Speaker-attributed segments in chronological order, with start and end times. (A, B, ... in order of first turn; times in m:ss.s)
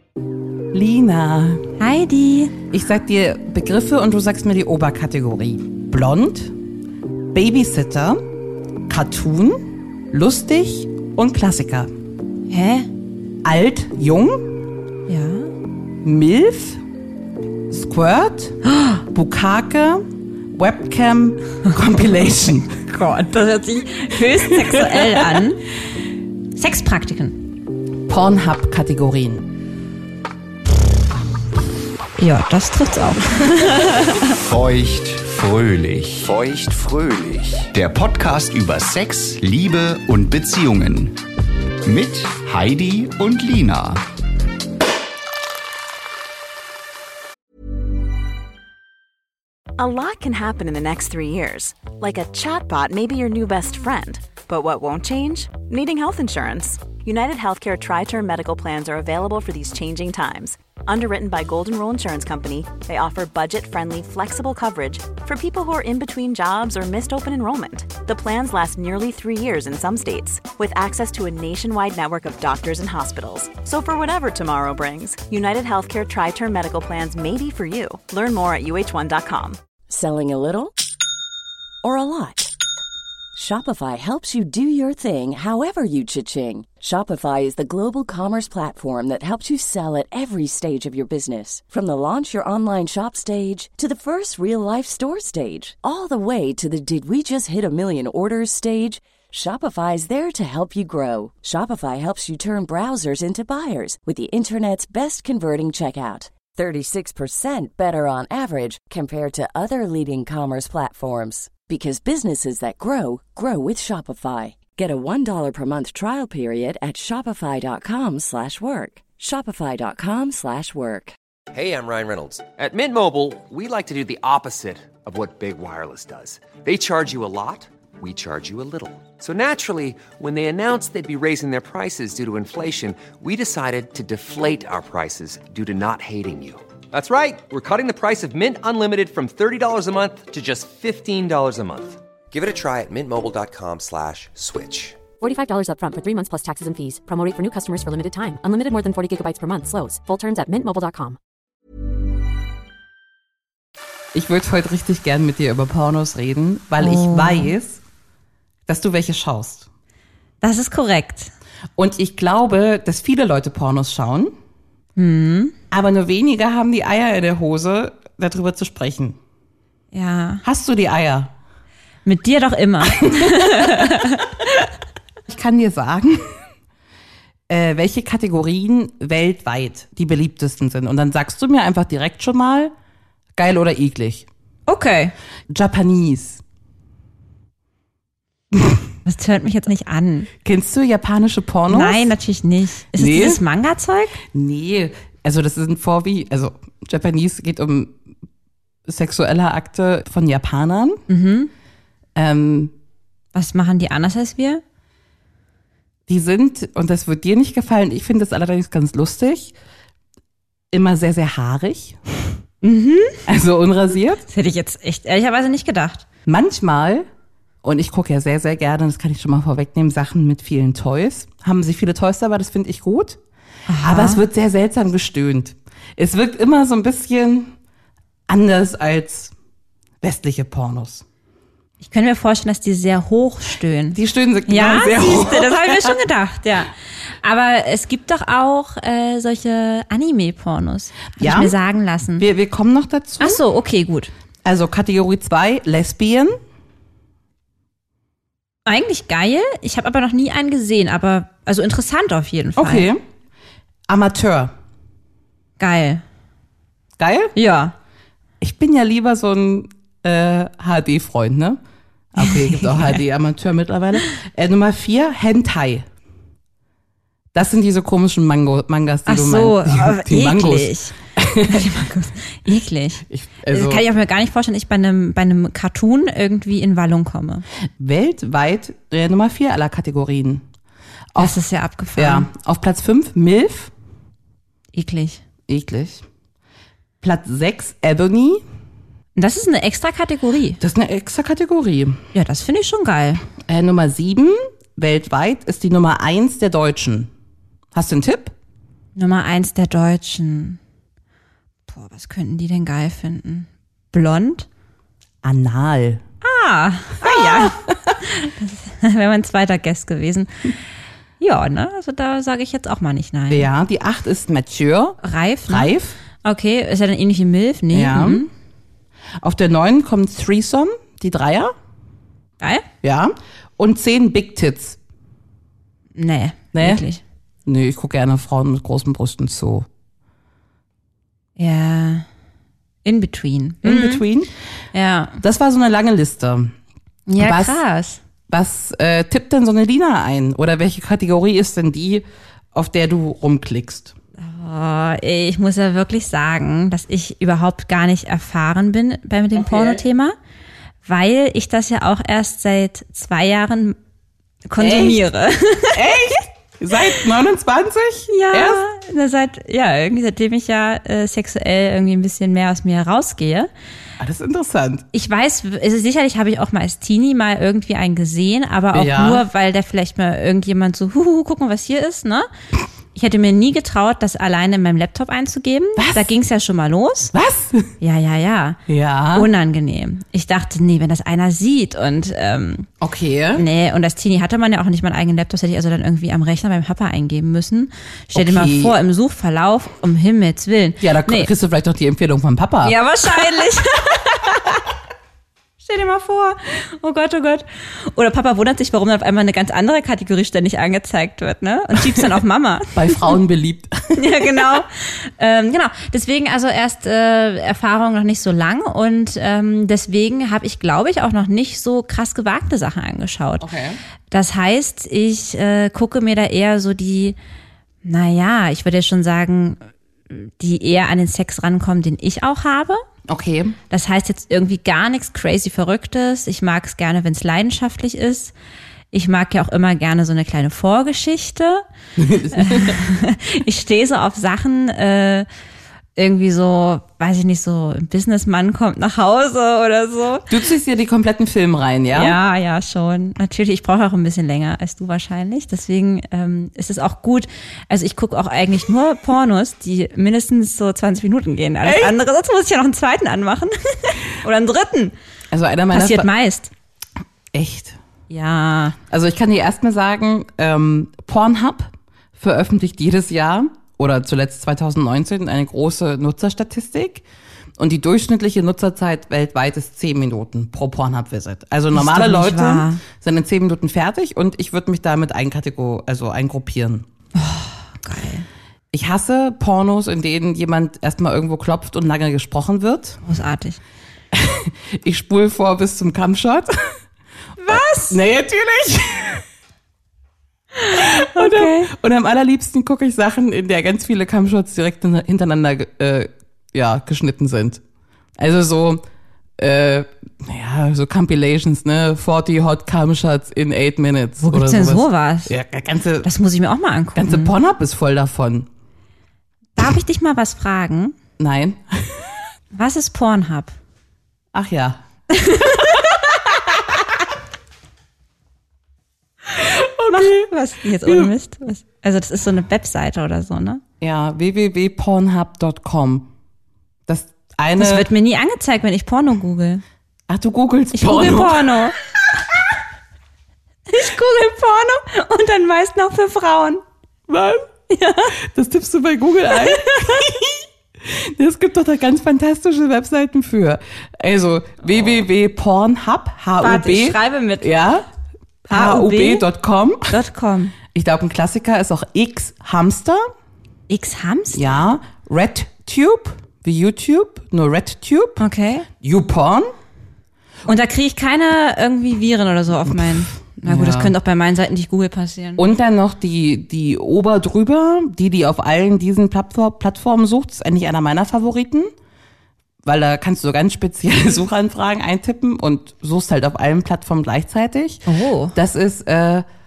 0:00.7-0:01.7 A
0:01.8-0:02.6 B
0:02.7-0:06.6 A
0:07.3-0:08.2 A
0:08.9-0:11.9 A
0:12.5-0:12.9 B
0:13.4-0:14.6 A
0:15.1-0:15.5 B
0:16.0-0:16.8 A
0:17.7-0:22.7 A
0:22.9-0:25.7 B
0:24.5-0:25.4 A
0:26.5-0:27.4 B
0:28.1-0:29.5 A
0:32.2-0:34.2 B
0:34.3-0:41.2 C
0:41.8-0:44.0 C
0:49.8-1:19.6 D
1:19.9-1:20.7 E
1:21.8-1:22.5 E
1:23.4-2:01.2 E
2:01.5-2:25.0 F
2:25.2-2:31.2 G
2:34.1-2:37.8 A
2:36.8-2:37.5 B
2:38.7-2:39.7 A
2:40.4-2:41.3 B
2:41.8-2:44.3 A
2:45.0-2:45.5 B
2:45.7-2:49.2 A
2:49.9-2:50.4 B
2:50.4-2:51.3 A
2:52.0-2:54.3 B
2:52.9-2:54.0 A
2:55.3-2:56.4 A
2:57.5-3:02.7 A
3:03.4-3:04.3 A
3:04.7-3:05.2 B
3:05.5-3:06.4 A
3:08.5-3:08.8 A
3:09.0-3:10.3 B
3:10.4-3:12.1 A
3:11.7-3:14.2 B
3:12.9-3:13.4 A
3:14.3-3:18.0 A
3:18.9-3:21.0 A
3:21.1-3:21.5 B
3:22.2-3:22.7 A
3:23.3-3:24.6 B
3:26.1-3:29.6 A
3:30.7-3:32.4 A
3:32.6-3:33.2 B
3:33.3-3:34.2 A
3:34.2-3:36.0 B
3:36.3-3:37.1 A
3:37.6-3:43.2 A
3:43.7-3:44.2 B
3:43.8-3:47.6 A
3:48.3-3:49.3 A
3:50.0-3:51.0 A
3:51.8-4:02.3 B
3:53.9-3:56.0 A
4:01.2-4:01.6 A
4:02.2-4:03.4 A
4:03.2-4:04.1 B
4:04.4-4:06.4 A
4:08.7-4:12.9 B
4:12.6-4:13.0 A
4:13.9-4:14.5 A
4:15.6-4:16.0 B
4:17.0-4:17.4 A
4:17.4-4:17.8 B
4:18.4-4:21.6 A
4:22.1-4:25.9 A
4:22.2-4:23.0 B
4:27.3-4:31.8 A
4:29.1-4:37.4 B
4:33.1-4:33.9 A
4:37.8-4:40.4 A
4:41.1-4:41.4 A
4:41.2-4:42.3 B
4:42.0-4:43.7 A
4:44.7-4:45.2 B
4:45.5-4:46.0 A
4:47.0-4:48.4 A
4:49.2-4:50.6 B
4:50.6-4:52.0 A
4:52.1-4:53.2 B
4:53.4-4:57.1 A
4:57.7-4:58.3 A
4:59.0-5:00.6 B
5:01.7-5:04.5 B
5:05.2-5:06.0 A
5:06.2-5:10.5 B
5:07.0-5:08.0 A
5:11.2-5:13.5 B
5:13.3-5:16.0 A
5:15.0-5:15.7 B
5:16.2-5:18.3 B
5:17.7-5:18.2 A
5:19.2-5:21.5 A
5:22.8-5:24.8 A
5:26.0-5:27.0 B
5:26.5-5:26.8 A
5:27.5-5:29.7 A
5:31.4-5:32.0 B
5:32.8-5:34.0 B
5:33.6-5:34.3 A
5:34.7-5:35.2 B
5:35.2-5:36.6 A
5:37.1-5:38.0 B
5:37.2-5:37.6 A
5:38.3-5:43.9 A
5:44.2-5:50.2 B
5:49.3-5:49.8 A
5:50.8-5:53.8 B
5:54.5-5:55.8 B
5:54.6-5:55.0 A
5:55.7-5:58.6 A
5:58.1-6:03.5 B
6:04.0-6:04.9 A
6:04.9-6:12.3 B
6:08.7-6:09.2 A
6:13.0-6:17.1 B
6:15.8-6:16.1 A
6:17.1-6:17.7 A
6:17.8-6:18.6 B
6:18.7-6:19.3 A
6:19.1-6:22.7 B
6:22.8-6:23.5 A
6:23.4-6:31.3 B
6:28.2-6:28.8 A
6:30.8-6:32.8 A
6:32.6-6:34.6 B
6:35.6-6:43.0 B
6:42.8-6:44.4 A
6:44.0-6:53.5 B
6:53.4-6:53.8 A
6:54.1-6:57.2 B
6:57.8-7:02.8 B
7:03.1-7:03.6 A
7:03.7-7:08.3 B
7:08.9-7:11.6 B
7:12.0-7:12.8 A
7:12.3-7:15.3 B
7:16.0-7:20.3 B
7:20.3-7:22.2 A
7:21.9-7:35.0 B
7:31.6-7:31.9 A
7:35.3-7:36.1 A
7:35.7-7:36.5 B
7:37.3-7:37.8 A
7:38.1-7:38.8 B
7:38.9-7:47.0 A
7:47.6-7:56.9 A
7:51.7-7:52.8 B
7:57.2-7:58.3 B
7:58.7-8:03.0 A
8:03.0-8:03.6 B
8:04.1-8:06.8 A
8:07.4-8:08.0 B
8:07.5-8:09.2 A
8:10.6-8:11.7 B
8:10.7-8:17.6 A
8:18.2-8:18.8 A
8:19.4-8:26.1 A
8:24.2-8:25.3 B
8:26.0-8:27.3 B
8:27.0-8:28.5 A
8:29.6-8:31.0 B
8:31.2-8:32.2 A
8:32.5-8:33.5 B
8:34.3-8:34.8 A
8:35.1-8:35.8 B
8:35.6-8:36.8 A
8:39.3-8:40.3 A
8:39.9-8:43.6 B
8:40.8-8:41.1 A
8:43.8-8:46.1 A
8:46.9-8:47.9 A
8:47.6-8:49.6 B
8:50.1-8:51.6 A
8:50.7-8:51.8 B
8:53.7-8:56.6 B
8:57.1-8:57.5 A
8:57.7-8:58.2 B
8:58.1-9:07.9 A
8:59.3-9:00.0 B
9:06.4-9:07.5 B
9:08.5-9:09.3 B
9:08.5-9:10.0 A
9:09.9-9:10.6 B
9:10.7-9:13.0 A
9:13.7-9:14.6 B
9:14.3-9:18.2 A
9:18.2-9:18.7 B
9:18.8-9:19.5 A
9:20.5-9:25.4 B
9:22.7-9:22.9 A
9:23.4-9:24.0 A
9:25.4-9:31.7 A
9:32.6-9:39.3 A
9:37.9-9:38.4 B